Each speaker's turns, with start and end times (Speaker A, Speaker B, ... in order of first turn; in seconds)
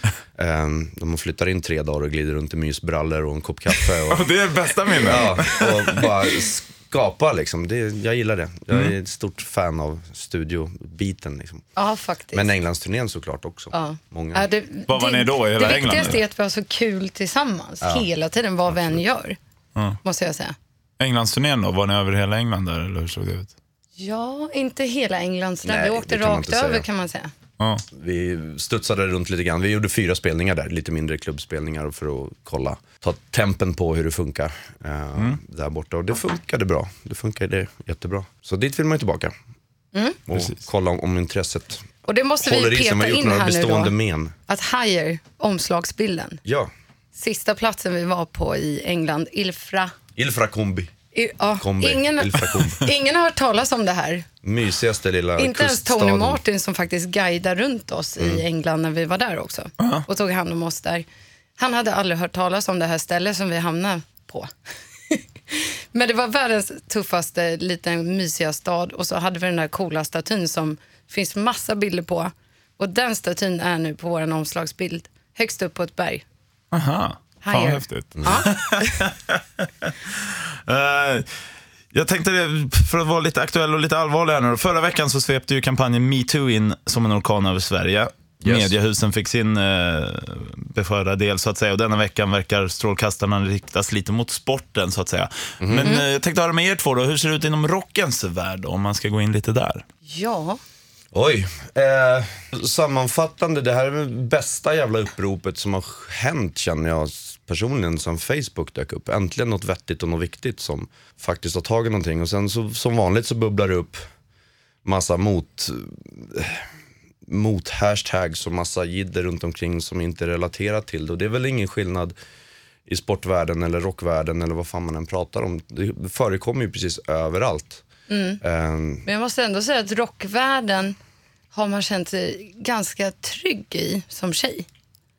Speaker A: 0.4-4.3, 5.0-11.6, 12.3-14.5, 17.8-18.1, 18.7-19.0, 25.6-26.9, 27.9-39.3, 40.3-41.9, 42.4-44.3, 46.5-46.7, 50.2-50.9, 51.6-52.8, 54.4-56.4, 58.2-58.4, 78.2-78.5, 88.4-88.8, 95.6-96.0, 101.1-114.0, 114.8-116.7, 117.3-122.2, 122.9-127.8, 128.4-129.1
Speaker B: 4.1-6.1, 14.9-16.2, 21.0-23.5, 27.6-27.9, 76.7-81.3, 81.9-99.8
Speaker C: 11.8-12.6, 13.7-19.4, 20.0-20.6, 24.0-27.3, 39.9-40.2, 42.0-44.0, 44.5-46.4, 47.1-49.9, 51.1-54.3, 55.4-61.1, 61.6-64.5, 65.1-76.2, 77.4-79.0, 100.1-100.6, 128.1-128.4, 129.1-131.0, 131.5-134.7